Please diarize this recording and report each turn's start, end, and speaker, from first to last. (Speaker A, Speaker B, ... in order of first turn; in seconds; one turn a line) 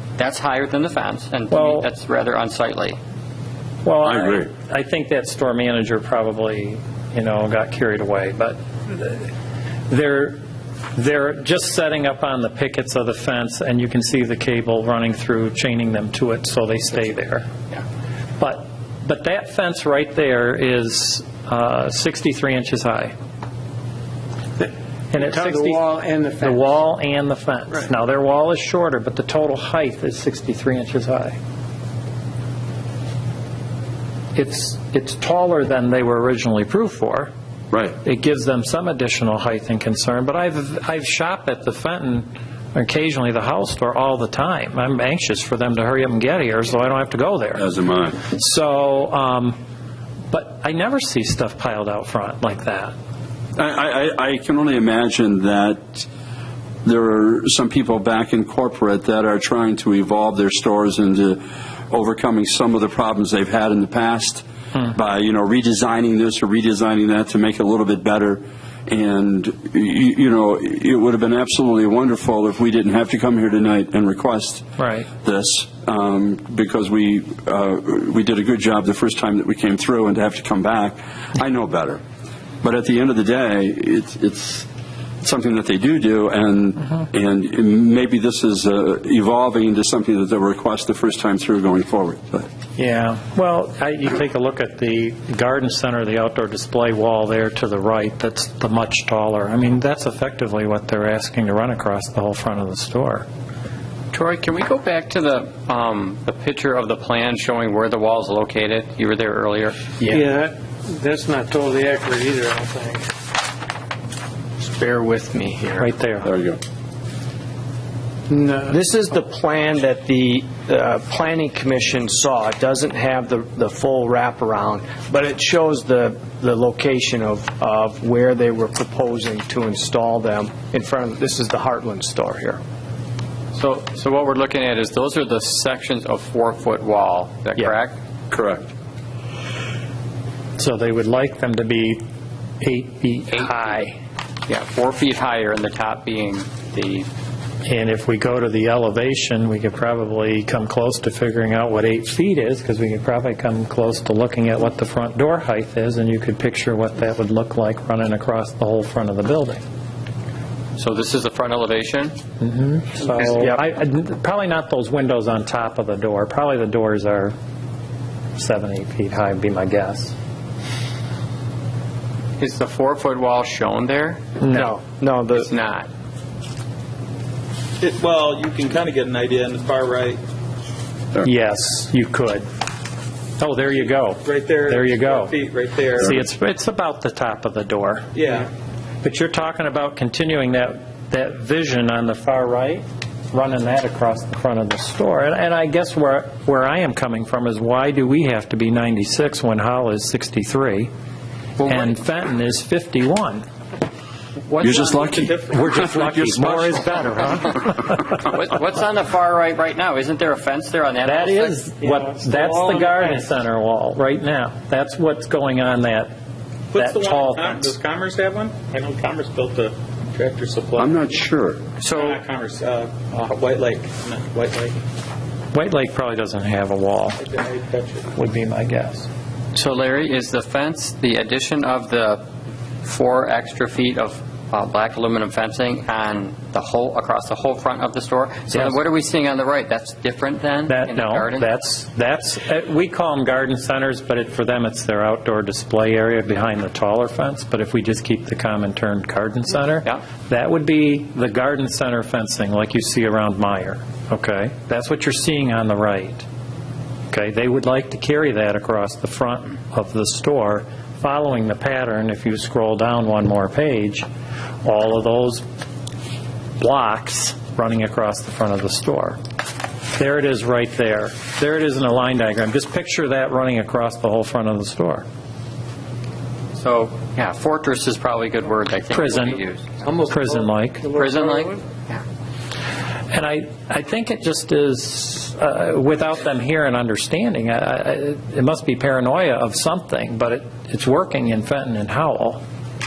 Speaker A: 0.2-3.0
Speaker B: 1.5-1.9
Speaker B: 3.8-9.3
Speaker C: 4.0-4.5
Speaker B: 9.9-10.4
Speaker B: 10.9-17.5
Speaker B: 18.4-23.1
Speaker D: 25.1-26.7
Speaker B: 25.1-31.4
Speaker B: 34.3-37.3
Speaker C: 37.7-38.0
Speaker B: 38.0-47.6
Speaker C: 47.5-48.2
Speaker B: 48.2-49.6
Speaker B: 50.3-52.9
Speaker C: 53.5-56.1
Speaker C: 56.8-74.7
Speaker B: 74.8-75.1
Speaker C: 75.2-82.0
Speaker C: 82.6-84.7
Speaker C: 85.2-92.5
Speaker B: 92.8-103.2
Speaker A: 104.1-110.0
Speaker D: 110.1-113.1
Speaker E: 114.6-115.9
Speaker B: 115.8-116.3
Speaker C: 116.2-116.6
Speaker D: 118.3-118.6
Speaker E: 118.6-132.6
Speaker A: 133.5-137.9
Speaker C: 138.3-138.7
Speaker B: 140.6-142.0
Speaker B: 142.6-144.0
Speaker A: 144.5-147.1
Speaker B: 147.6-159.6
Speaker A: 160.8-162.2
Speaker B: 162.4-167.3
Speaker E: 163.3-163.6
Speaker B: 168.3-170.1
Speaker A: 172.4-174.3
Speaker B: 174.4-174.7
Speaker E: 174.5-175.5
Speaker A: 175.3-175.9
Speaker F: 177.8-180.2
Speaker B: 181.2-182.5
Speaker B: 183.4-185.3
Speaker F: 184.2-186.2
Speaker B: 185.9-188.2
Speaker F: 188.1-188.5
Speaker B: 189.0-200.9
Speaker A: 201.6-201.9
Speaker B: 201.6-203.4
Speaker F: 204.5-205.9
Speaker C: 204.6-206.8
Speaker B: 205.5-208.2
Speaker A: 208.1-211.7
Speaker B: 211.0-216.1
Speaker D: 211.8-213.2
Speaker F: 216.7-221.0
Speaker B: 216.7-217.7
Speaker C: 220.8-221.6
Speaker A: 221.8-222.2
Speaker F: 221.8-224.8
Speaker B: 225.5-227.2
Speaker F: 227.2-228.1
Speaker B: 228.1-229.1
Speaker A: 229.5-232.2
Speaker A: 232.8-241.5
Speaker B: 238.5-238.8
Speaker B: 240.7-256.2
Speaker B: 257.1-264.1
Speaker B: 264.6-265.4
Speaker B: 266.6-269.2
Speaker B: 269.9-275.1
Speaker A: 276.6-279.9
Speaker B: 278.9-279.4
Speaker D: 279.8-281.5
Speaker B: 280.1-280.9
Speaker A: 280.9-282.0
Speaker B: 283.1-292.4